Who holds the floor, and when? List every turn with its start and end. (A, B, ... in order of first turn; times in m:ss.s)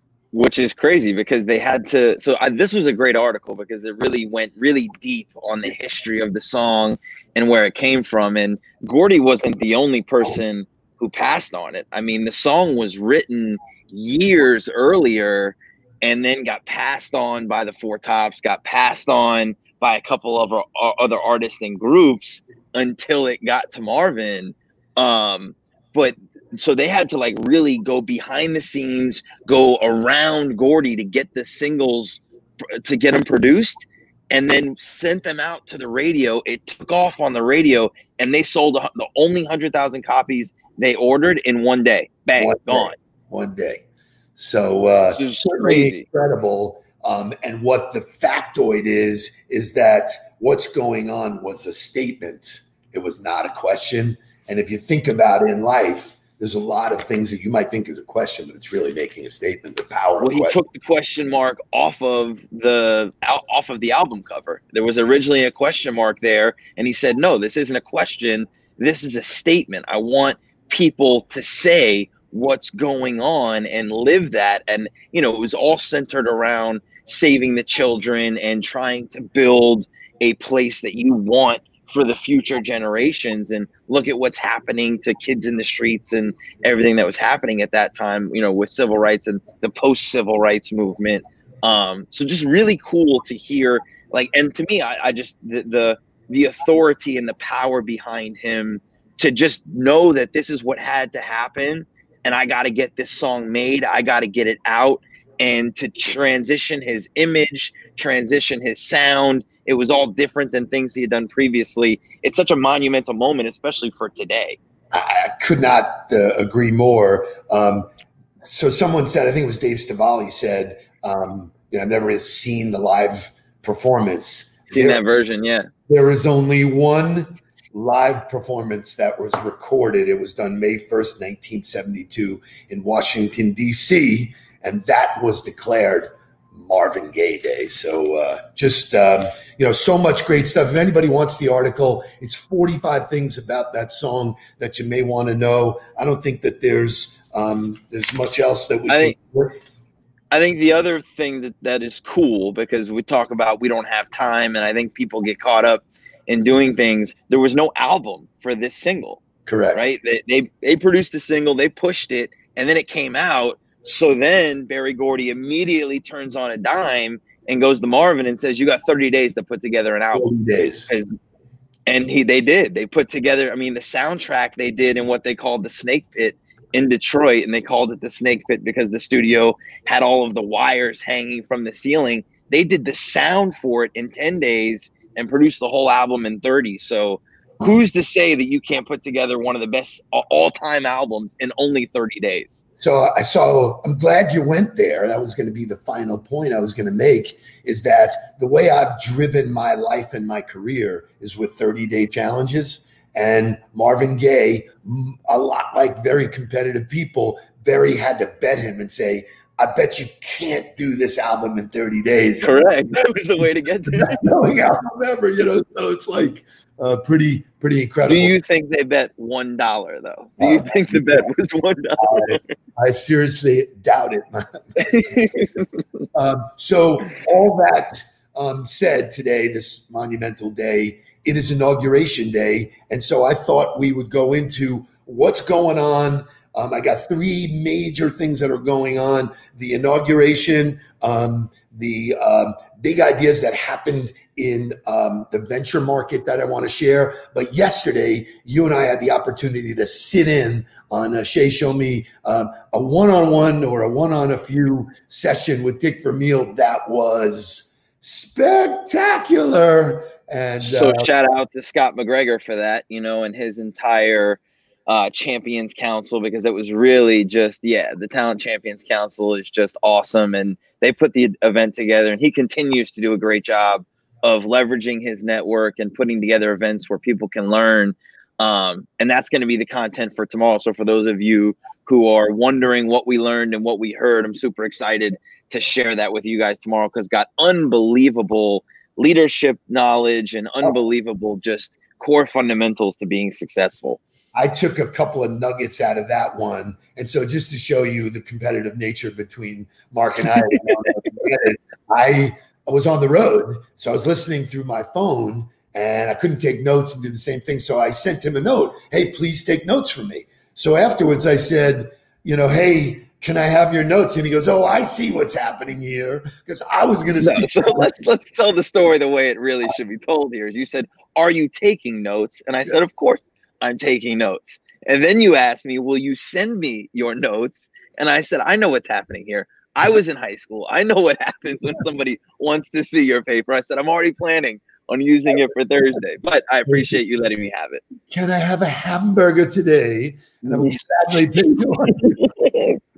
0:00.3-0:43.0 A
0:42.4-0:43.8 B
0:44.4-1:00.6 B
0:45.1-0:46.1 A
1:00.2-1:54.6 A
1:54.9-1:57.9 B
1:58.4-2:05.0 B
2:04.7-2:05.7 A
2:05.9-2:29.6 B
2:28.9-2:29.2 A
2:30.3-2:39.2 A
2:39.4-2:39.8 B
2:39.7-2:50.3 A
2:50.1-2:50.9 B
2:51.9-3:12.6 A
3:12.8-3:33.1 B
3:32.4-3:34.3 A
3:33.9-3:38.3 B
3:38.1-3:42.4 A
3:40.4-3:41.3 B
3:42.0-3:45.0 B
3:44.8-3:45.7 A
3:46.1-4:21.1 B
4:20.6-4:54.0 A
4:54.3-5:17.9 B
5:17.2-5:37.8 A
5:38.1-5:42.3 B
5:40.4-5:40.8 A
5:41.9-5:42.8 A